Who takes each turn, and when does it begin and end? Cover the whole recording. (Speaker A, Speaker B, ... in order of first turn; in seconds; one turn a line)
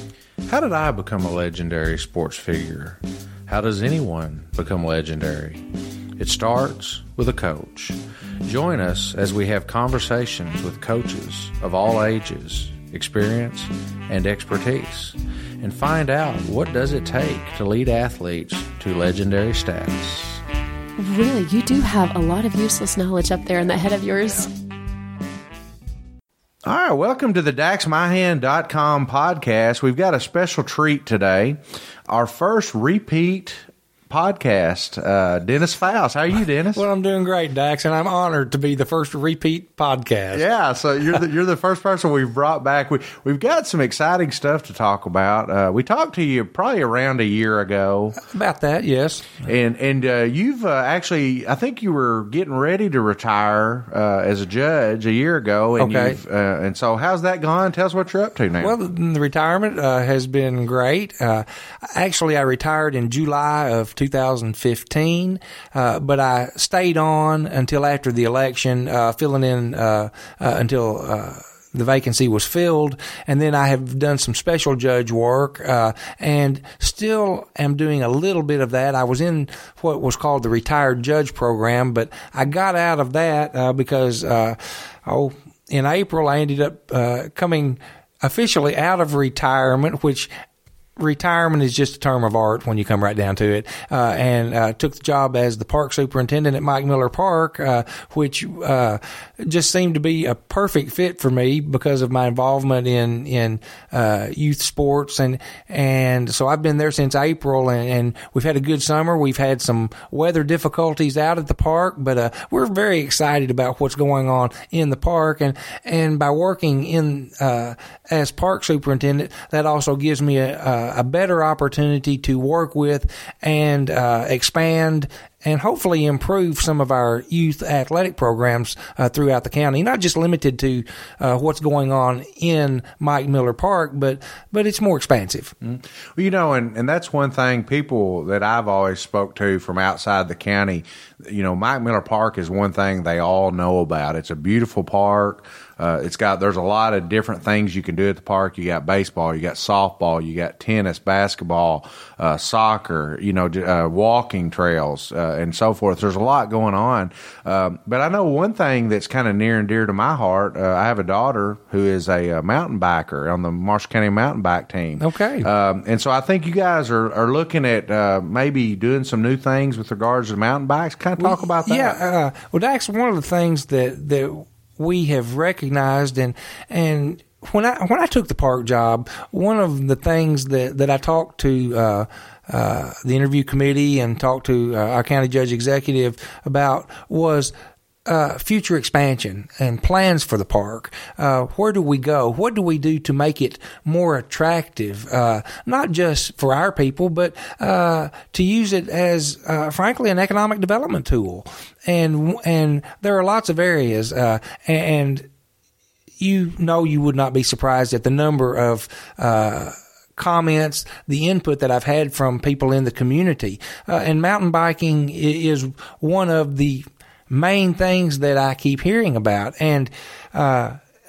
Speaker A: 0.5-5.6
Speaker A: 6.2-20.4
Speaker B: 21.0-24.5
Speaker A: 26.6-36.8
Speaker C: 36.7-40.4
Speaker A: 40.3-48.2
Speaker C: 48.2-49.3
Speaker A: 49.4-58.7
Speaker C: 55.8-56.2
Speaker C: 58.6-90.3
Speaker C: 91.0-135.5
Speaker A: 135.6-172.0
Speaker C: 165.0-165.5
Speaker C: 171.2-187.5
Speaker C: 188.1-205.3
Speaker C: 206.2-220.8